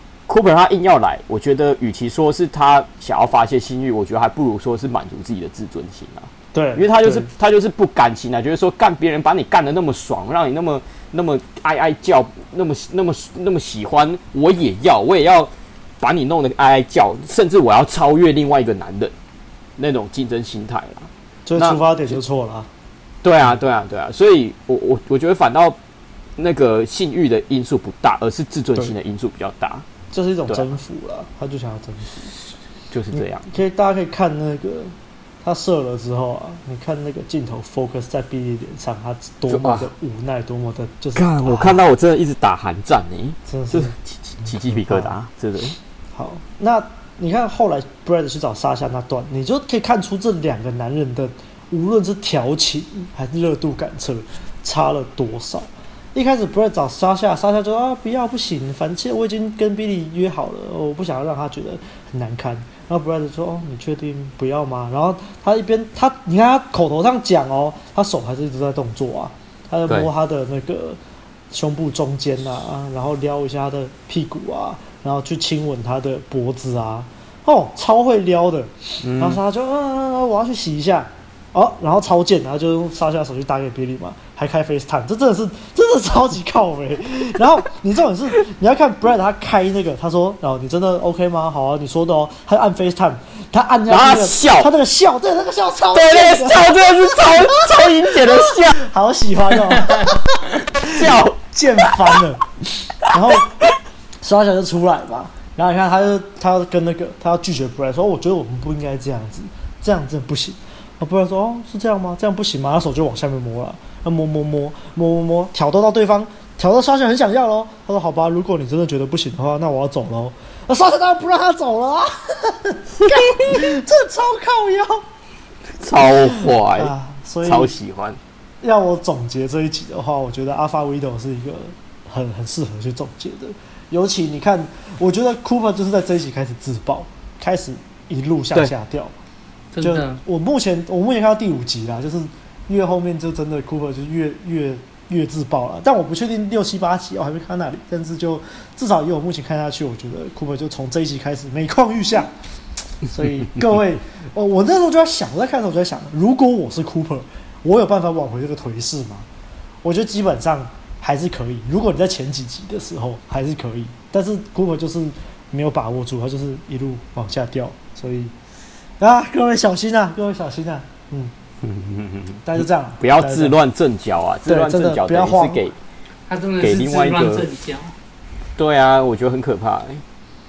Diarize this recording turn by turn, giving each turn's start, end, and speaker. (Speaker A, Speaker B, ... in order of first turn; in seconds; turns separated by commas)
Speaker A: 0.3-19.1, Speaker B: 6.5-7.3, Speaker A: 19.8-22.1, Speaker B: 21.5-22.7, Speaker A: 23.2-25.8, Speaker A: 26.4-29.9, Speaker B: 30.1-32.2, Speaker A: 32.9-33.5, Speaker B: 33.1-41.8, Speaker A: 39.5-39.9, Speaker A: 41.1-45.8, Speaker B: 43.5-45.1, Speaker B: 46.1-71.0, Speaker B: 71.5-100.2, Speaker A: 79.0-79.4, Speaker A: 93.9-94.7, Speaker A: 95.9-98.8, Speaker B: 100.8-102.4, Speaker A: 100.9-101.4, Speaker B: 103.1-103.5, Speaker B: 104.2-125.0, Speaker A: 123.0-123.6, Speaker A: 125.8-126.9, Speaker B: 126.3-127.8, Speaker A: 127.4-128.2, Speaker B: 128.6-139.1, Speaker C: 139.7-140.2, Speaker B: 139.8-152.3, Speaker B: 153.1-159.3, Speaker B: 159.8-168.3, Speaker B: 169.0-171.3, Speaker A: 171.6-175.8, Speaker B: 172.4-173.6, Speaker B: 174.4-175.7, Speaker C: 176.3-177.9, Speaker A: 176.6-177.5, Speaker A: 178.6-180.0